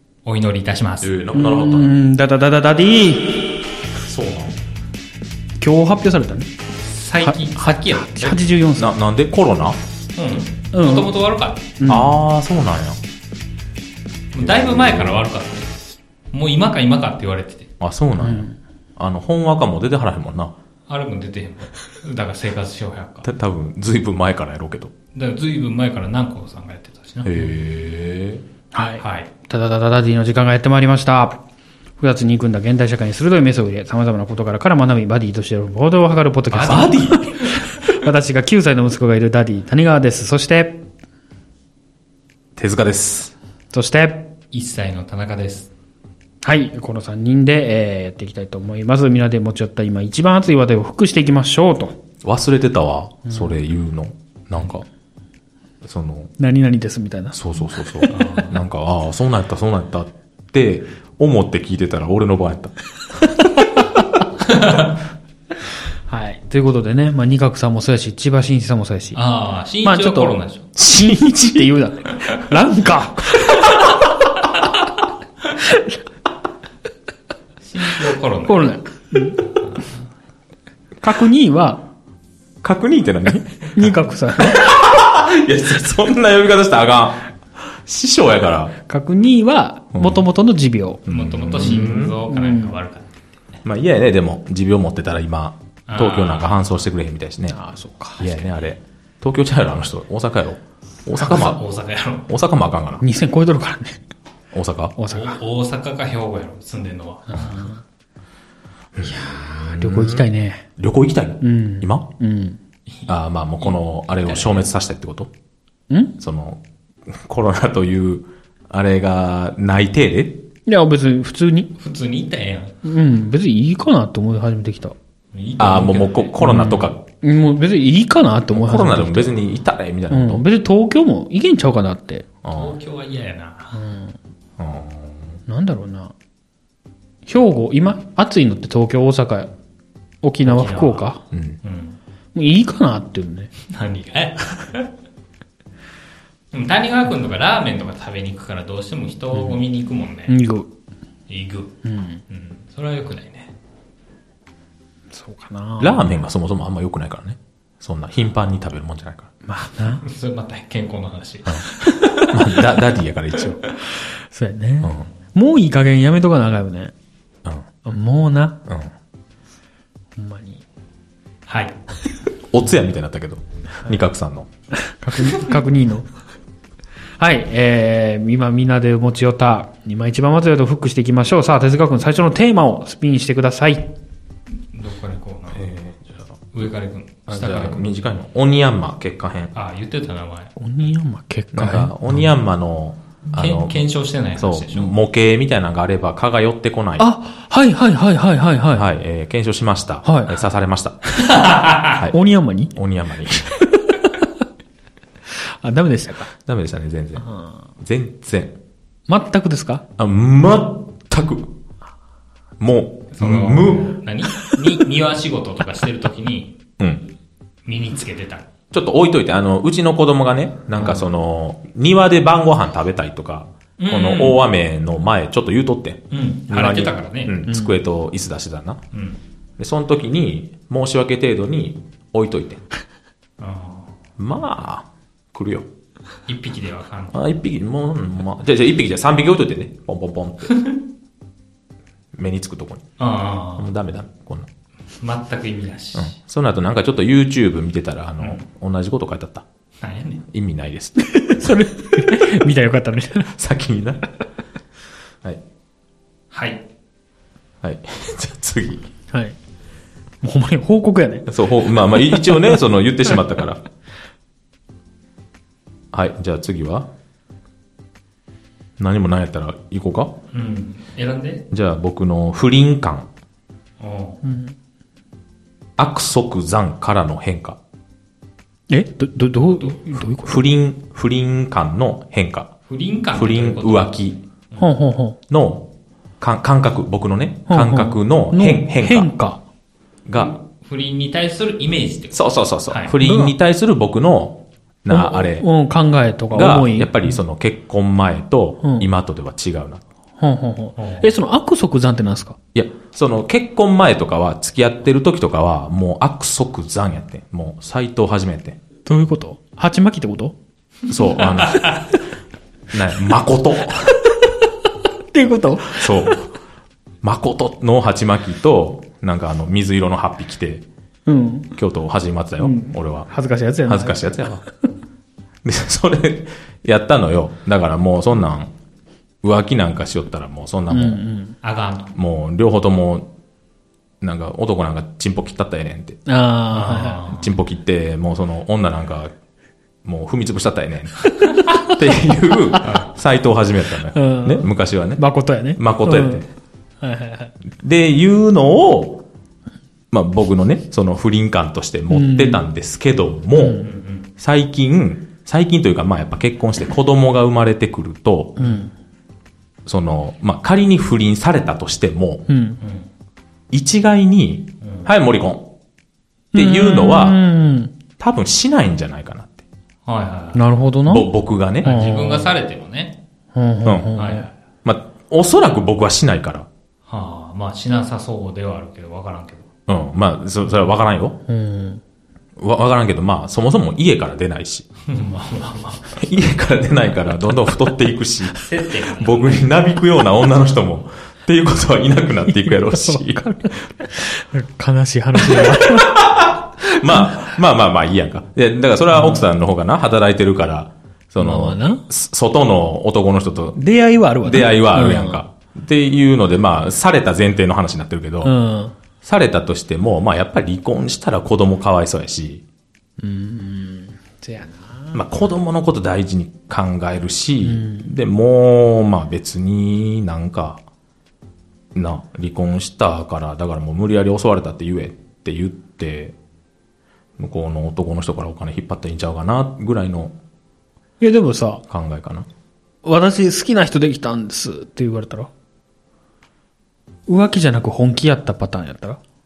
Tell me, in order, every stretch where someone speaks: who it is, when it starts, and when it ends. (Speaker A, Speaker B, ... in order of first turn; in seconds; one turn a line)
Speaker A: 0.2-1.1
Speaker B: 1.0-1.9
Speaker C: 1.3-3.6
Speaker B: 4.0-4.6
Speaker C: 5.6-6.5
Speaker A: 6.8-8.4
Speaker C: 7.2-8.9
Speaker B: 8.8-9.8
Speaker A: 10.2-11.6
Speaker C: 10.7-11.1
Speaker C: 11.8-12.2
Speaker B: 11.9-13.0
Speaker B: 14.3-15.2
Speaker A: 14.3-17.7
Speaker B: 17.8-20.5
Speaker C: 18.2-18.6
Speaker A: 20.9-23.3
Speaker B: 23.2-24.9
Speaker A: 25.1-27.5
Speaker B: 27.2-28.4
Speaker C: 28.7-31.4
Speaker A: 29.0-29.3
Speaker C: 32.0-40.8
Speaker B: 36.5-37.5
Speaker A: 36.5-36.9
Speaker B: 42.5-43.3
Speaker C: 43.7-44.3
Speaker A: 44.5-45.7
Speaker C: 46.4-52.0
Speaker B: 52.2-54.9
Speaker C: 53.3-53.6
Speaker B: 55.8-56.3
Speaker C: 56.4-58.2
Speaker B: 57.3-62.7
Speaker A: 58.1-58.6
Speaker A: 64.4-64.9
Speaker C: 66.1-69.2
Speaker A: 69.1-70.7
Speaker C: 69.8-73.9
Speaker B: 70.8-71.7
Speaker C: 75.6-76.0
Speaker A: 77.6-78.8
Speaker C: 78.5-79.4
Speaker C: 81.0-81.8
Speaker B: 82.6-88.7
Speaker C: 83.7-84.6
Speaker C: 88.9-91.1
Speaker B: 89.9-90.2
Speaker B: 91.1-92.2
Speaker A: 91.1-93.4
Speaker C: 91.6-92.7
Speaker B: 93.6-97.6
Speaker A: 95.9-96.8
Speaker C: 97.5-98.3
Speaker B: 98.2-101.6
Speaker A: 101.2-102.3
Speaker B: 102.3-103.0
Speaker C: 103.0-104.0
Speaker B: 104.5-104.9
Speaker C: 105.0-105.4
Speaker A: 105.1-107.6
Speaker C: 107.3-107.8
Speaker B: 108.9-112.1
Speaker C: 109.0-110.6
Speaker C: 111.4-112.6
Speaker B: 113.1-115.3
Speaker A: 113.6-114.7
Speaker C: 115.9-116.2
Speaker B: 116.2-120.4
Speaker C: 120.7-121.7
Speaker A: 121.8-122.7
Speaker C: 122.8-124.9
Speaker A: 125.3-126.3
Speaker B: 125.6-127.0
Speaker C: 126.4-129.3
Speaker B: 128.5-130.4
Speaker C: 130.1-132.2
Speaker B: 132.4-132.8
Speaker A: 132.5-133.8
Speaker C: 133.7-134.1
Speaker B: 134.6-135.4
Speaker C: 135.5-136.1
Speaker C: 137.2-139.5
Speaker C: 140.2-141.2
Speaker A: 140.4-141.1
Speaker B: 141.3-141.6
Speaker A: 141.6-142.0
Speaker C: 142.3-143.5
Speaker A: 143.6-144.9
Speaker A: 146.5-150.3
Speaker C: 149.3-149.6
Speaker C: 150.3-150.7
Speaker A: 151.3-151.7
Speaker C: 151.8-152.2
Speaker A: 152.3-153.5
Speaker C: 155.1-156.2
Speaker B: 155.8-159.3
Speaker C: 159.4-160.0
Speaker A: 160.0-162.3
Speaker B: 162.2-163.6
Speaker C: 164.3-166.9
Speaker B: 164.8-165.1
Speaker C: 167.8-168.6
Speaker B: 168.7-168.9
Speaker C: 170.2-170.6
Speaker A: 171.5-171.8
Speaker B: 172.5-174.5
Speaker C: 174.8-176.1
Speaker C: 177.2-183.9
Speaker A: 184.6-185.7
Speaker B: 185.5-186.2
Speaker A: 186.5-187.8
Speaker B: 187.3-189.5
Speaker A: 189.5-190.5
Speaker C: 190.6-192.2
Speaker B: 191.5-193.8
Speaker A: 193.3-194.9
Speaker B: 194.3-197.1
Speaker C: 197.0-198.9
Speaker B: 198.7-201.2
Speaker C: 200.0-200.4
Speaker A: 201.2-202.0
Speaker B: 201.9-202.2
Speaker C: 202.1-202.7
Speaker B: 202.7-203.6
Speaker C: 203.6-204.2
Speaker C: 205.4-206.3
Speaker B: 206.3-207.3
Speaker C: 207.2-207.5
Speaker B: 207.8-208.6
Speaker C: 209.1-209.8
Speaker B: 210.0-211.5
Speaker B: 212.6-213.9
Speaker A: 213.1-216.6
Speaker B: 216.8-217.1
Speaker A: 217.7-218.5
Speaker B: 218.7-228.8
Speaker A: 223.8-224.4
Speaker A: 226.1-227.4
Speaker C: 227.5-227.8
Speaker A: 228.9-229.2
Speaker B: 229.6-232.6
Speaker A: 233.4-233.9
Speaker B: 234.2-235.7
Speaker A: 236.3-237.2
Speaker B: 237.1-240.5
Speaker A: 240.5-240.8
Speaker B: 242.1-242.8
Speaker A: 243.0-243.7
Speaker B: 243.6-244.5
Speaker A: 245.0-246.1
Speaker B: 245.9-249.4
Speaker A: 249.8-250.2
Speaker B: 250.3-252.4
Speaker C: 251.0-253.3
Speaker B: 253.3-254.0
Speaker A: 256.3-256.6
Speaker B: 257.6-258.9
Speaker C: 260.2-261.3
Speaker B: 261.3-263.6
Speaker B: 265.9-266.9
Speaker B: 268.8-270.1
Speaker A: 270.3-271.4
Speaker B: 271.5-273.1
Speaker A: 273.8-274.2
Speaker C: 274.2-274.5
Speaker B: 275.8-277.6
Speaker C: 278.7-280.4
Speaker B: 280.2-282.5
Speaker A: 282.7-284.7
Speaker B: 283.1-284.2
Speaker C: 284.6-285.2
Speaker B: 285.3-285.7
Speaker B: 286.2-289.1
Speaker C: 287.5-289.4
Speaker B: 290.1-290.3
Speaker A: 290.2-292.9
Speaker B: 292.1-295.5
Speaker C: 293.0-293.3
Speaker C: 294.9-297.0
Speaker B: 296.3-299.8
Speaker C: 298.6-298.9
Speaker C: 300.2-302.4
Speaker A: 300.8-301.1
Speaker B: 302.5-308.6
Speaker C: 308.9-310.3
Speaker B: 310.9-311.8
Speaker A: 311.4-311.9
Speaker B: 312.7-314.0
Speaker C: 315.1-316.2
Speaker B: 315.7-316.3
Speaker B: 317.0-320.6
Speaker C: 321.1-321.5
Speaker B: 321.6-323.1
Speaker C: 322.4-324.3
Speaker B: 323.6-324.4
Speaker B: 325.4-328.5
Speaker B: 329.2-331.0
Speaker C: 330.7-331.4
Speaker A: 331.4-331.9
Speaker B: 331.9-333.1
Speaker B: 334.0-336.0
Speaker C: 336.1-337.0
Speaker A: 336.5-337.3
Speaker B: 337.1-339.1
Speaker B: 339.8-345.0
Speaker C: 341.3-341.7
Speaker C: 343.9-346.2
Speaker B: 345.6-346.2
Speaker C: 346.8-347.3
Speaker B: 347.5-349.0
Speaker B: 349.9-353.6
Speaker C: 351.9-352.4
Speaker C: 353.3-353.7
Speaker A: 353.6-354.1
Speaker B: 354.2-358.4
Speaker C: 358.4-358.7
Speaker B: 359.6-362.2
Speaker C: 362.3-362.6
Speaker A: 362.6-362.9
Speaker B: 363.5-365.5
Speaker A: 364.6-364.9
Speaker C: 366.3-367.7
Speaker B: 366.3-367.2
Speaker B: 368.0-369.4
Speaker A: 369.9-370.4
Speaker C: 370.3-371.1
Speaker B: 370.9-371.7
Speaker C: 371.6-372.3
Speaker A: 371.6-373.0
Speaker C: 373.3-374.3
Speaker B: 373.6-374.0
Speaker A: 374.0-374.3
Speaker B: 374.6-376.5
Speaker A: 376.9-379.5
Speaker B: 379.7-381.2
Speaker C: 381.3-381.8
Speaker B: 382.4-384.7
Speaker A: 384.9-386.0
Speaker B: 385.9-393.6
Speaker A: 388.3-389.5
Speaker C: 392.3-396.1
Speaker B: 395.2-403.6
Speaker C: 396.8-397.1
Speaker C: 398.9-399.2
Speaker C: 401.2-401.8
Speaker C: 403.6-405.2
Speaker B: 404.2-408.3
Speaker C: 408.2-408.7
Speaker B: 409.0-412.4
Speaker C: 413.0-415.0
Speaker B: 414.9-420.6
Speaker C: 417.4-417.9
Speaker B: 421.7-426.1
Speaker B: 427.2-430.1
Speaker C: 431.0-431.6
Speaker B: 431.7-432.3
Speaker C: 432.8-435.3
Speaker C: 437.1-439.0